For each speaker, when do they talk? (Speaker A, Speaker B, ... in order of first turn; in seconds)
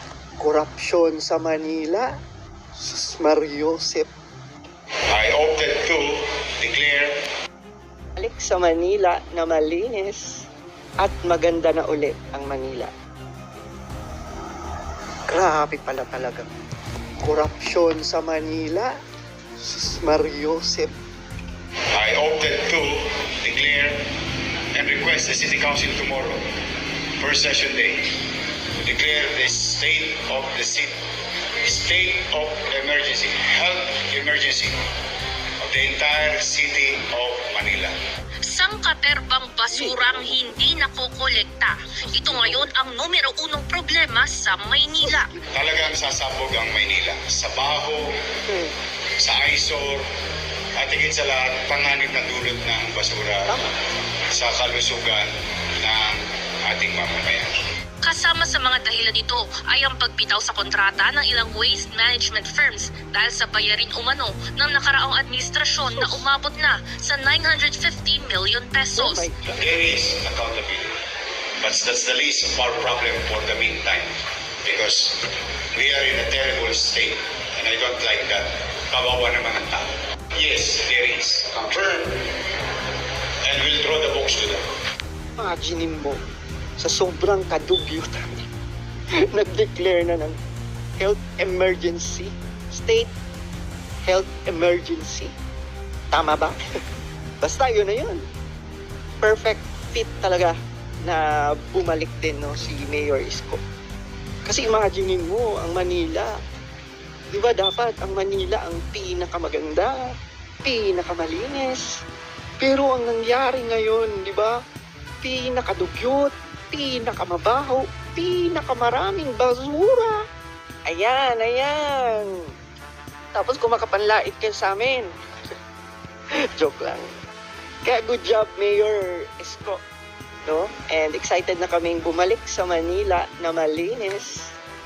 Speaker A: 0.4-2.1, 2.8-4.1, 8.2-10.5, 11.0-12.9, 15.3-16.5, 17.2-19.0, 19.6-21.0, 39.7-40.1, 45.0-45.6, 48.5-48.7, 53.5-53.7, 65.9-66.2, 69.0-69.6, 85.4-86.2, 86.8-88.5, 89.3-90.4, 91.0-93.1, 94.0-95.3, 96.1-96.6, 97.4-98.2, 99.2-103.6, 104.5-106.4, 107.3-112.0, 112.6-114.6, 115.2-120.2, 120.9-122.3, 123.3-125.1, 126.5-127.1, 127.8-129.8, 130.5-134.5
Speaker B: 5.1-7.2, 21.9-24.0, 24.7-26.4, 27.2-28.2, 28.8-31.0, 31.6-34.8, 35.6-38.0, 45.5-48.1, 49.2-50.1, 50.8-53.5, 54.3-57.5, 69.6-70.9, 71.6-74.1, 74.6-75.2, 75.8-82.3, 83.5-84.6
Speaker C: 38.5-45.3, 58.0-69.2